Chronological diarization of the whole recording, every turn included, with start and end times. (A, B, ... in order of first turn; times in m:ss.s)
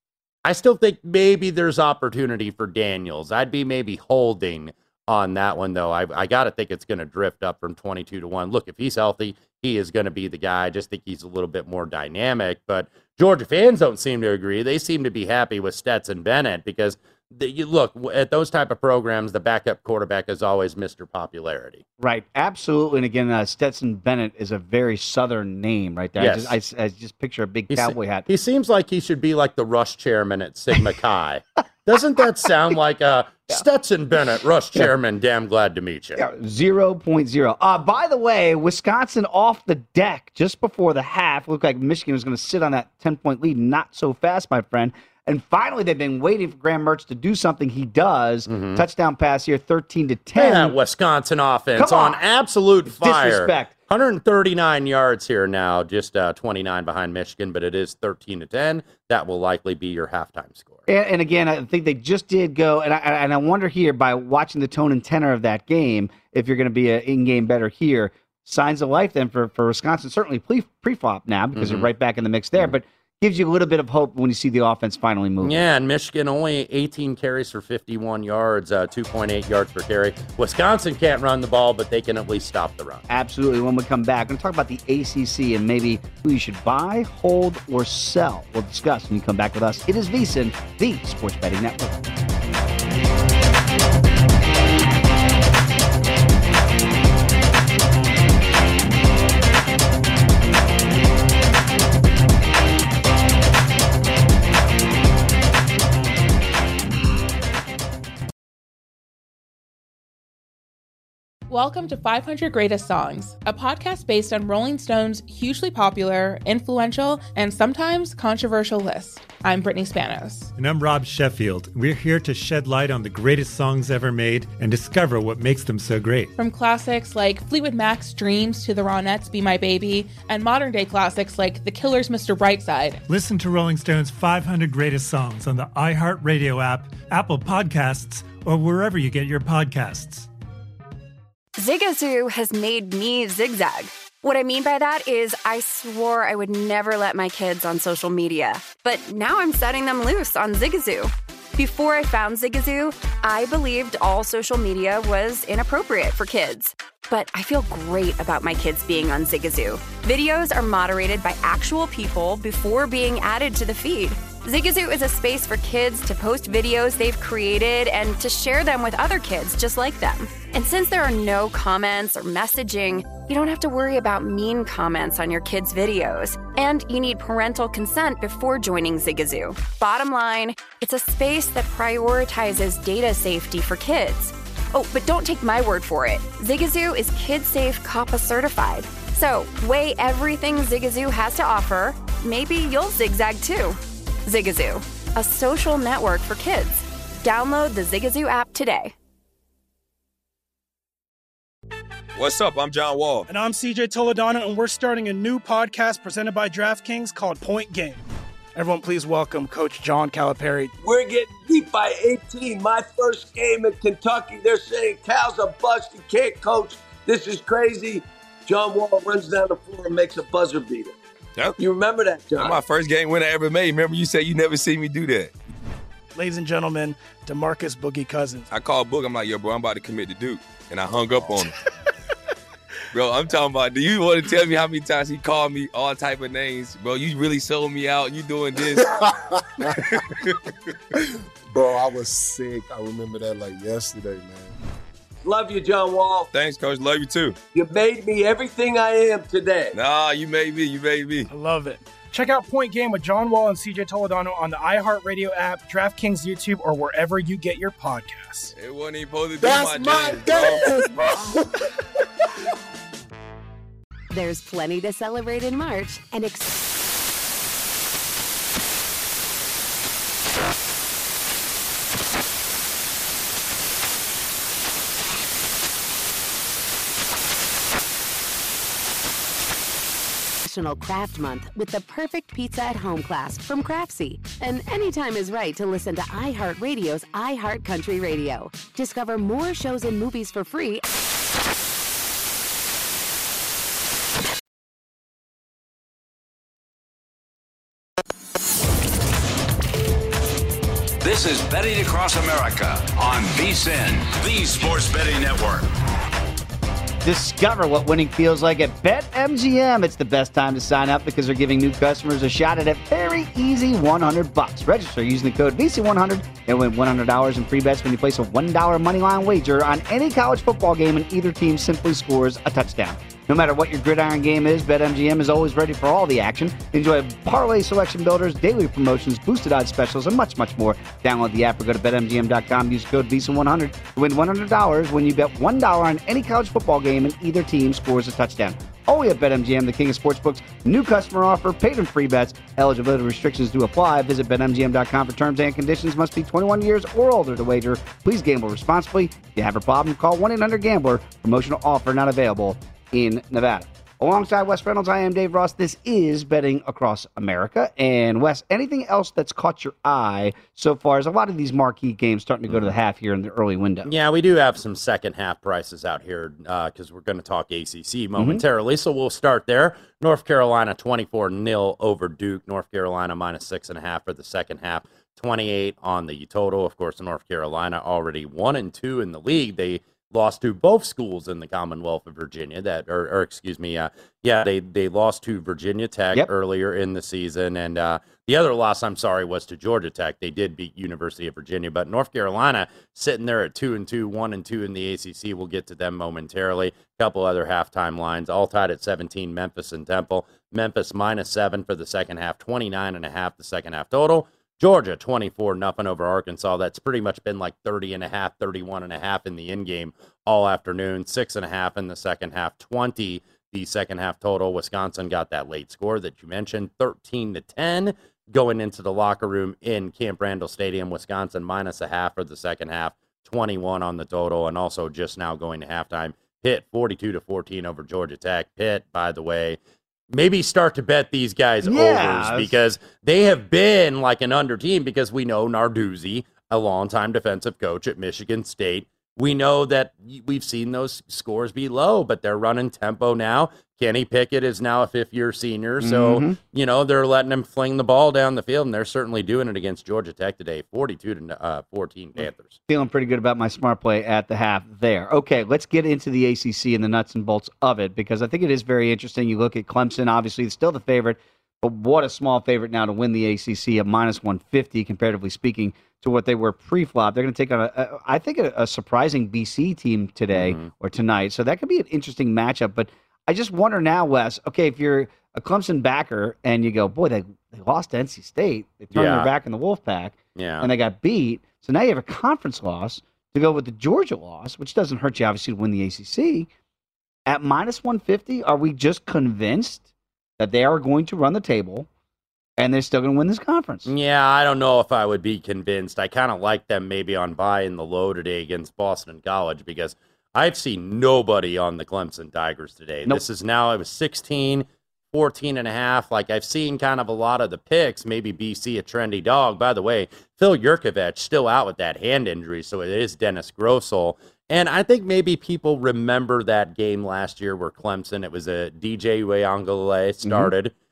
0:00.4-0:21.8 A
0:22.0-0:28.3 B
0:26.2-0:26.6 A
0:27.7-0:36.2 A
0:36.2-0:50.8 B
0:48.5-0:48.8 A
0:50.4-1:00.8 A
0:51.8-0:52.2 B
0:52.9-0:53.7 B
1:00.9-1:15.6 B
1:11.6-1:11.9 A
1:15.4-1:23.0 A
1:23.1-1:32.0 B
1:51.5-2:00.5 C
2:00.6-2:06.3 D
2:06.4-2:13.0 C
2:13.1-2:20.3 D
2:21.6-3:18.9 E
3:22.2-3:23.3 F
3:23.3-3:28.0 G
3:28.6-3:30.7 G
3:30.8-3:41.0 H
3:41.6-3:42.6 H
3:42.4-3:45.3 F
3:46.2-3:48.5 G
3:48.5-3:51.6 F
3:52.9-3:59.0 F
3:58.8-3:59.9 I
3:59.9-4:00.4 F
4:01.5-4:04.6 I
4:05.2-4:06.3 H
4:06.3-4:07.4 F
4:07.5-4:09.8 H
4:09.7-4:11.3 F
4:11.3-4:18.5 G
4:18.5-4:21.1 F
4:19.4-4:20.9 I
4:24.1-4:26.7 J
4:40.4-4:50.8 J
5:01.0-5:05.7 K
5:07.0-6:03.9 B
6:02.5-6:02.7 A
6:03.9-7:09.6 A
6:08.2-6:08.4 B
7:10.1-7:32.6 A
7:11.6-7:12.5 B
7:25.8-7:26.4 B
7:32.7-8:06.5 B
7:50.3-7:50.7 A
7:58.9-7:59.3 A
8:00.4-8:00.7 A
8:07.3-8:09.9 B
8:10.4-8:11.9 B
8:12.6-8:13.9 B
8:13.9-8:40.7 A
8:40.2-8:40.5 B